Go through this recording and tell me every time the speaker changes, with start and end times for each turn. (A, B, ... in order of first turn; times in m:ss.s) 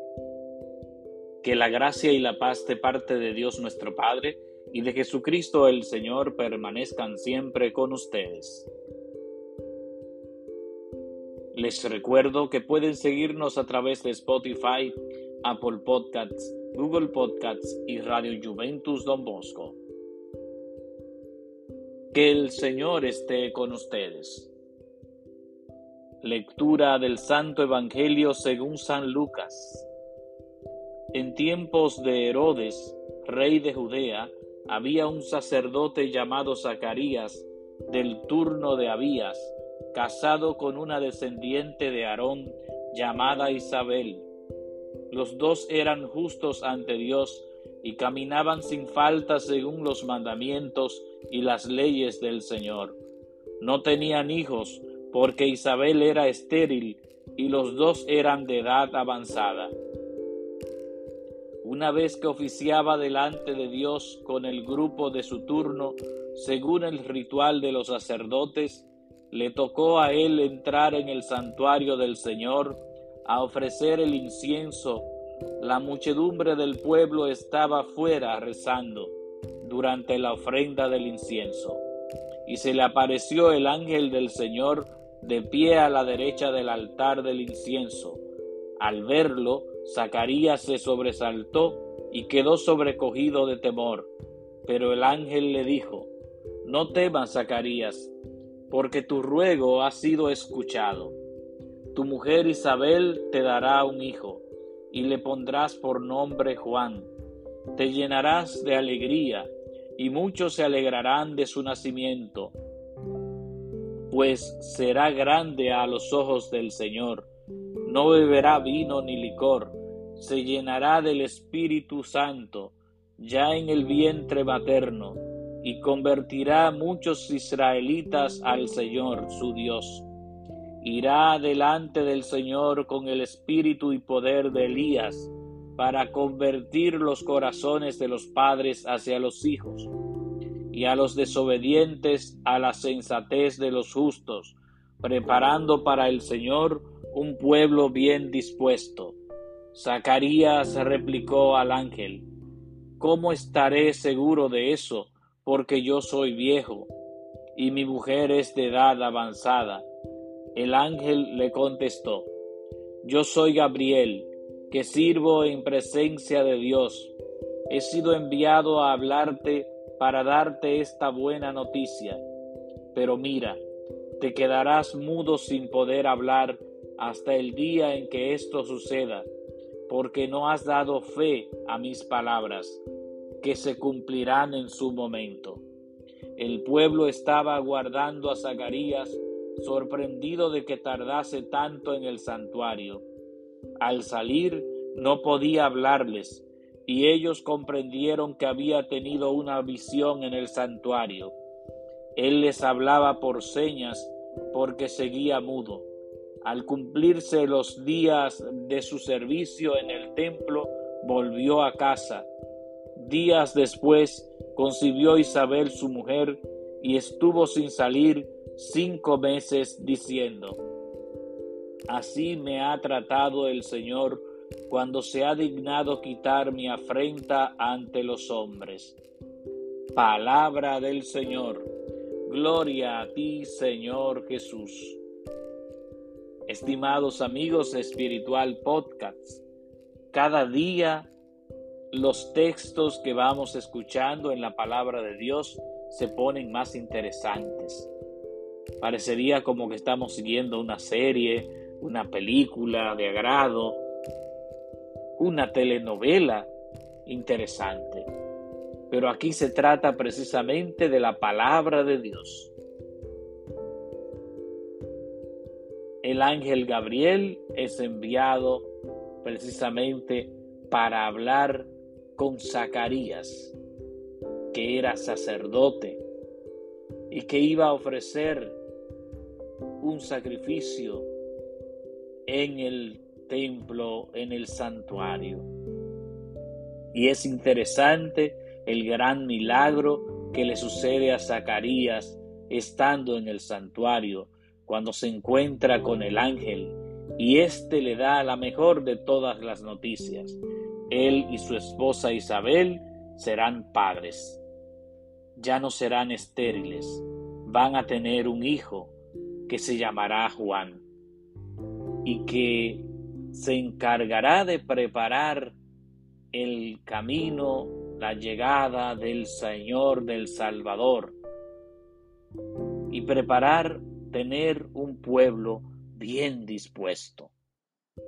0:01.4-0:08.7 A
0:11.5-0:19.8 A
0:22.1-0:24.5 A
0:26.2-0:29.9 A
0:31.1-0:44.3 A
0:45.1-0:53.0 A
0:53.6-0:59.8 A
1:01.6-1:15.1 A
1:15.6-1:21.8 A
1:22.5-1:28.2 A
1:28.8-1:34.1 A
1:34.7-1:36.1 A
1:36.6-1:38.1 A
1:38.7-1:41.2 A
1:41.9-1:47.1 A
1:47.8-1:52.6 A
1:54.1-1:57.3 A
1:57.8-2:10.1 A
2:10.8-2:19.9 A
2:20.7-2:29.2 A
2:29.7-2:32.3 A
2:33.0-2:36.9 A
2:37.6-2:39.9 A
2:40.6-2:42.3 A
2:43.0-2:47.1 A
2:47.7-2:52.2 A
2:52.9-2:53.6 A
2:54.2-2:59.3 A
2:59.9-3:02.8 A
3:03.4-3:05.6 A
3:06.4-3:13.0 A
3:13.8-3:21.4 A
3:22.2-3:25.9 A
3:26.4-3:32.3 A
3:33.0-3:40.6 A
3:41.9-3:49.0 A
3:49.9-3:51.7 A
3:52.3-3:55.0 A
3:56.5-3:59.4 A
4:00.1-4:01.1 A
4:01.9-4:07.9 A
4:08.8-4:13.8 A
4:15.2-4:16.5 A
4:17.1-4:18.1 A
4:18.9-4:22.5 A
4:26.0-4:28.7 A
4:29.2-4:33.6 A
4:34.5-4:36.0 A
4:37.1-4:38.6 A
4:39.8-4:41.1 A
4:42.3-4:45.5 A
4:46.9-5:00.4 A
5:00.9-5:04.4 A
5:05.4-5:08.9 A
5:09.5-5:10.8 A
5:12.0-5:15.6 A
5:16.3-5:21.2 A
5:22.9-5:27.3 A